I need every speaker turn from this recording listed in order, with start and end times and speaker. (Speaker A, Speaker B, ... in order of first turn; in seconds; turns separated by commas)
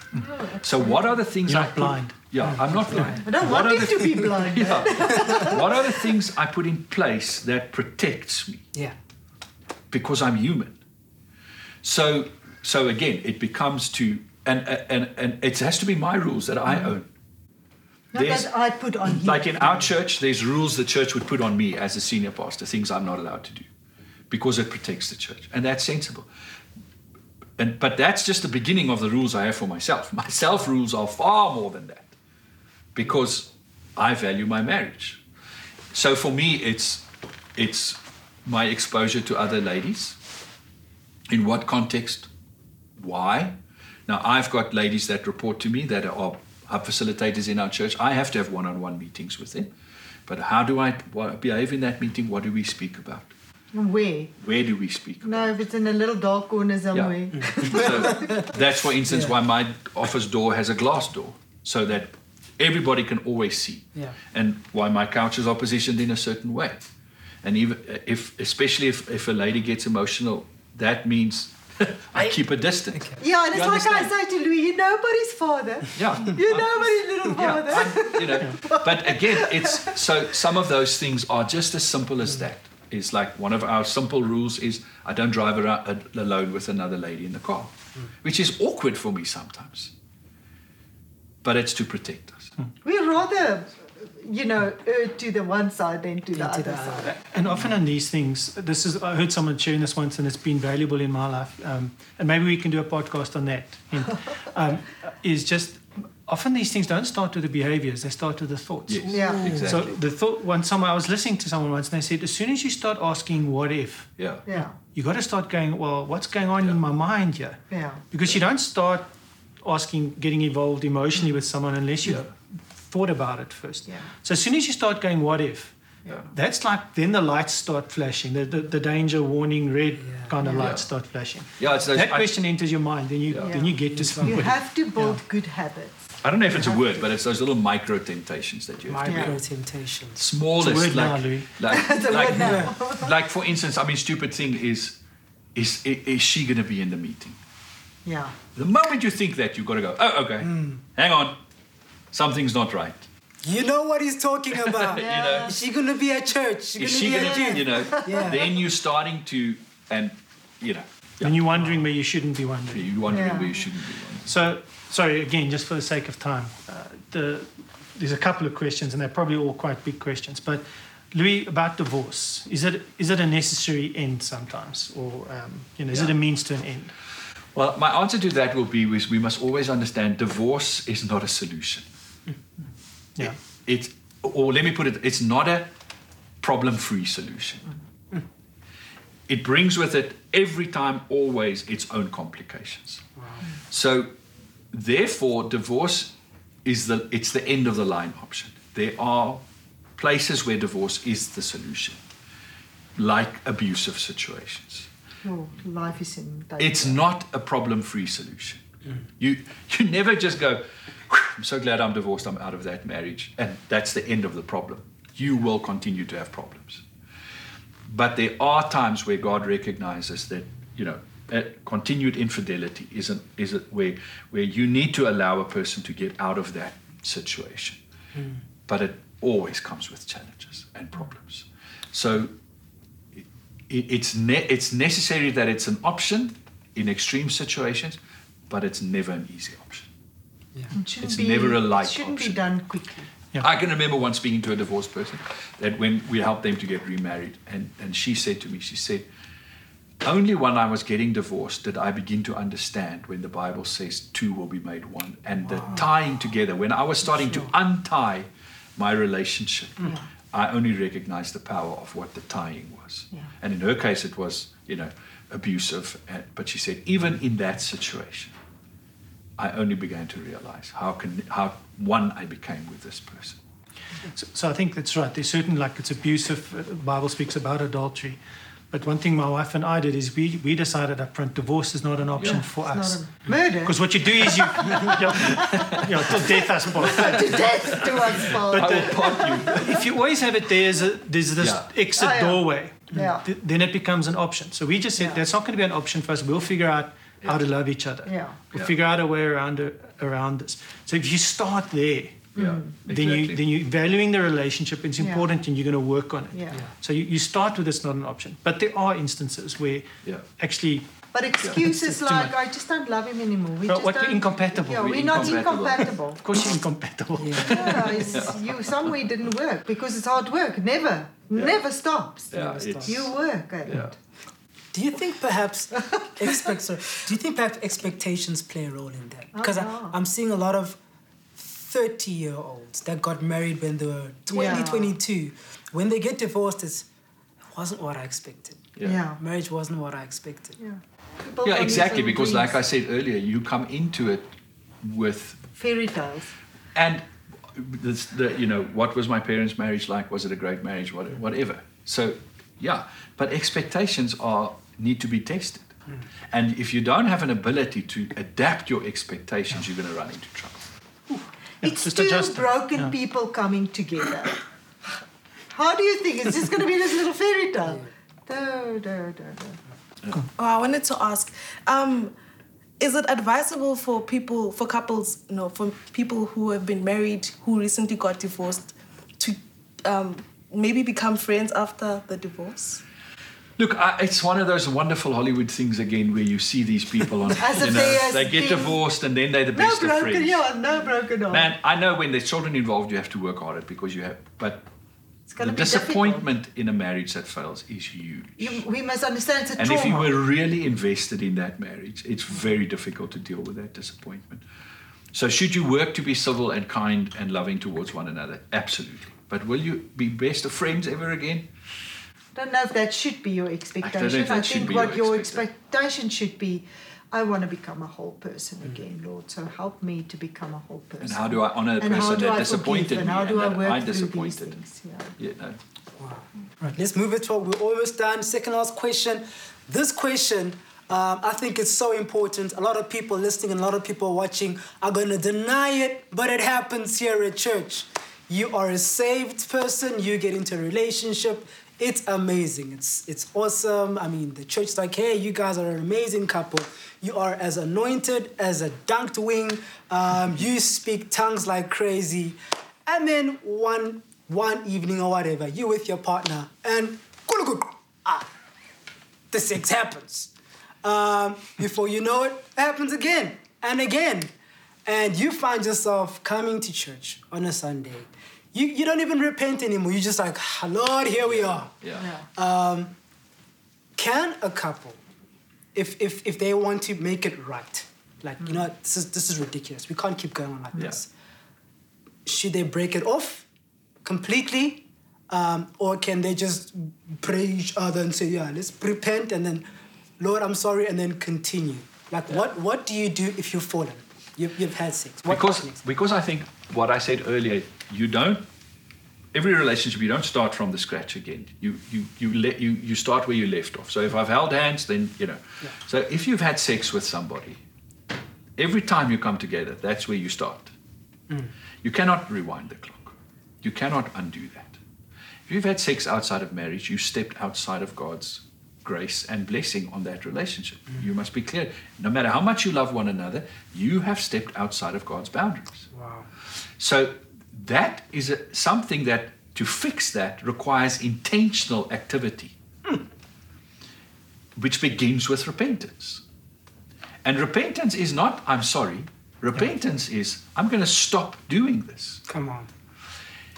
Speaker A: 0.1-1.2, Speaker B: 0.6-8.6, Speaker C: 1.5-2.1, Speaker D: 2.4-3.6, Speaker A: 3.1-5.9, Speaker D: 5.1-5.4, Speaker B: 9.9-10.8, Speaker B: 11.8-17.1, Speaker A: 16.7-16.9, Speaker A: 18.1-19.9, Speaker B: 18.1-18.5, Speaker B: 19.0-23.7, Speaker B: 24.3-26.3, Speaker B: 27.6-32.1, Speaker B: 32.9-35.2, Speaker B: 35.9-37.0, Speaker B: 37.5-40.1, Speaker B: 41.3-42.3, Speaker B: 43.0-43.5, Speaker B: 44.1-49.7, Speaker B: 50.3-53.3, Speaker A: 53.7-54.3, Speaker B: 54.4-55.6, Speaker A: 55.2-58.5, Speaker B: 56.9-66.8, Speaker D: 57.3-58.4, Speaker D: 59.1-59.3, Speaker B: 67.4-74.1, Speaker D: 72.9-73.2, Speaker A: 73.2-79.9, Speaker B: 75.9-89.9, Speaker C: 78.3-78.6, Speaker B: 91.4-92.5, Speaker A: 92.8-97.1, Speaker D: 96.3-97.2, Speaker C: 97.1-119.1, Speaker B: 108.9-109.9, Speaker A: 109.1-109.6, Speaker D: 109.3-109.7, Speaker B: 114.2-114.4, Speaker A: 114.5-114.7, Speaker A: 117.7-118.0, Speaker C: 119.6-125.8, Speaker B: 122.0-122.3, Speaker C: 126.3-135.2, Speaker D: 130.0-130.3, Speaker A: 130.4-130.7, Speaker B: 130.6-130.9, Speaker B: 131.6-132.4, Speaker B: 133.3-133.6, Speaker A: 133.4-136.9, Speaker D: 133.8-134.5, Speaker B: 136.2-139.4, Speaker D: 138.9-140.2, Speaker A: 139.0-139.3, Speaker B: 140.2-145.0, Speaker C: 140.6-141.5, Speaker A: 141.7-143.1, Speaker D: 142.3-142.7, Speaker B: 145.5-147.3, Speaker A: 148.0-148.3, Speaker B: 148.6-151.4, Speaker D: 150.4-150.8, Speaker B: 152.1-153.1, Speaker D: 153.4-158.6, Speaker B: 154.6-155.6, Speaker A: 155.0-155.6, Speaker B: 156.8-161.5, Speaker A: 157.1-158.4, Speaker C: 161.2-163.1, Speaker B: 162.7-164.4, Speaker A: 163.1-163.5, Speaker C: 164.2-176.9, Speaker B: 177.5-181.8, Speaker B: 183.2-185.7, Speaker B: 186.4-187.7, Speaker B: 189.3-193.1, Speaker D: 193.2-193.4, Speaker B: 193.7-194.1, Speaker B: 194.7-196.1, Speaker B: 196.6-199.4, Speaker B: 200.0-202.0, Speaker B: 202.9-204.9, Speaker A: 205.2-207.0, Speaker B: 206.6-208.6, Speaker B: 209.2-216.8, Speaker B: 217.9-227.8, Speaker B: 228.7-232.3, Speaker B: 233.1-238.0, Speaker B: 238.5-239.9, Speaker A: 240.7-243.1, Speaker B: 241.0-242.4, Speaker B: 243.4-249.0, Speaker B: 250.0-268.3, Speaker D: 255.4-255.8, Speaker B: 269.4-273.4, Speaker C: 274.1-310.9, Speaker B: 282.1-282.4, Speaker A: 282.3-285.8, Speaker B: 285.3-285.8, Speaker A: 286.8-289.7, Speaker B: 286.8-289.8, Speaker B: 291.4-291.7, Speaker A: 291.9-293.2, Speaker B: 298.0-298.7, Speaker A: 298.1-298.4, Speaker B: 302.3-303.4, Speaker A: 302.4-302.7, Speaker A: 305.0-305.2, Speaker A: 306.3-306.6, Speaker A: 311.1-316.2, Speaker C: 311.4-312.4, Speaker C: 313.7-318.2, Speaker B: 314.7-315.9, Speaker D: 317.2-318.0, Speaker B: 317.4-318.6, Speaker A: 317.5-322.3, Speaker B: 321.3-321.6, Speaker B: 322.3-323.9, Speaker D: 322.3-323.0, Speaker A: 322.9-323.9, Speaker D: 324.7-330.8, Speaker A: 325.8-326.6, Speaker A: 329.3-329.9, Speaker D: 331.3-336.9, Speaker A: 334.3-334.9, Speaker D: 337.5-340.6, Speaker B: 338.8-339.0, Speaker A: 338.8-339.2, Speaker A: 340.6-342.6, Speaker B: 341.4-344.3, Speaker B: 344.8-345.5, Speaker A: 345.6-346.3, Speaker B: 346.7-355.8, Speaker B: 356.3-360.6, Speaker C: 361.1-362.9, Speaker A: 361.6-364.4, Speaker A: 365.5-369.6, Speaker E: 370.3-372.1, Speaker E: 372.8-382.8, Speaker B: 383.6-390.5, Speaker A: 387.4-388.8, Speaker A: 389.5-391.5, Speaker B: 391.3-394.6, Speaker A: 395.3-396.2, Speaker B: 395.4-398.6, Speaker A: 398.4-400.1, Speaker B: 399.6-404.4, Speaker B: 405.1-411.5, Speaker A: 412.3-425.1, Speaker B: 413.8-415.4, Speaker B: 421.0-424.6, Speaker B: 425.2-425.6, Speaker D: 426.0-458.3, Speaker D: 459.3-460.3, Speaker D: 460.8-464.3, Speaker D: 464.8-471.7, Speaker B: 471.2-472.1, Speaker A: 472.0-472.2, Speaker D: 472.3-472.9, Speaker D: 473.9-475.0, Speaker D: 475.7-481.1, Speaker D: 482.2-483.4, Speaker D: 484.0-489.6, Speaker D: 490.2-495.8, Speaker B: 495.3-498.4, Speaker B: 499.3-507.6, Speaker B: 508.6-510.7, Speaker B: 511.8-514.8, Speaker B: 515.5-525.9, Speaker D: 525.9-526.3, Speaker B: 526.8-532.5, Speaker B: 534.5-536.2, Speaker B: 537.2-542.2, Speaker D: 542.3-542.7